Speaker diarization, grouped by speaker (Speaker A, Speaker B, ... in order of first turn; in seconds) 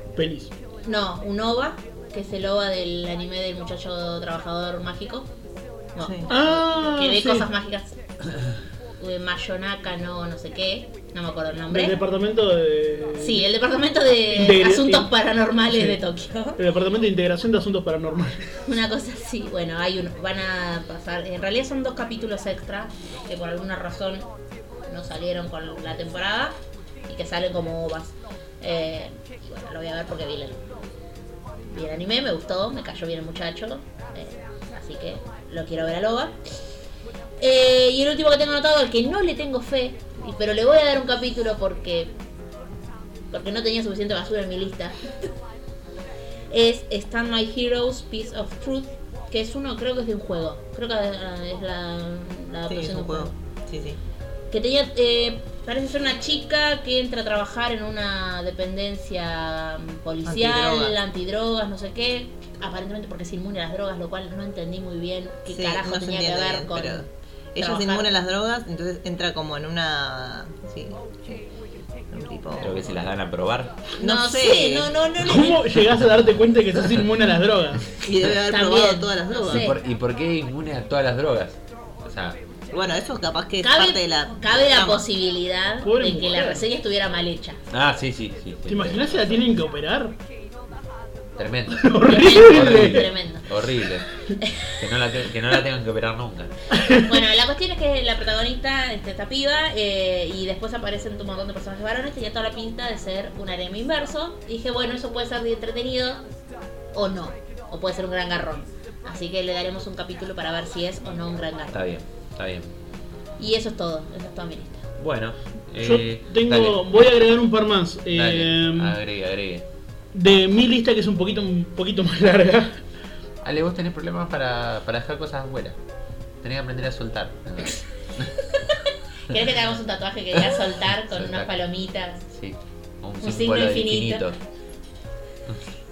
Speaker A: 0.2-0.5, 6.3-7.5, 11.7-13.5, 14.3-15.1, 15.7-16.0, 16.6-18.4, 75.2-77.8, 85.8-86.7, 88.7-90.2, 91.7-93.1, 96.8-97.1, 115.8-119.0, 120.1-122.8
Speaker B: 0.8-5.3, 6.0-8.0, 9.0-12.0, 13.2-16.6, 18.7-24.3, 24.9-26.6, 27.1-30.6, 31.7-36.4, 37.4-42.1, 43.3-45.0, 46.5-53.3, 54.5-67.1, 67.6-68.1, 74.0-75.7, 78.5-79.8, 83.6-87.6, 92.0-93.5, 94.4-94.7, 97.0-106.2, 106.9-111.8, 113.4-114.8, 129.3-132.2, 133.2-134.3
Speaker C: 6.0-6.3, 52.7-54.0, 60.3-61.0, 65.5-71.4, 72.1-73.0, 74.0-74.9, 78.0-79.7, 82.7-85.0
Speaker D: 72.6-73.8, 79.5-82.4, 87.7-89.4, 91.4-94.0, 94.8-96.5, 111.7-112.7, 115.0-116.8, 118.1-119.7, 123.4-125.8, 126.4-128.4, 131.1-131.5, 132.3-134.4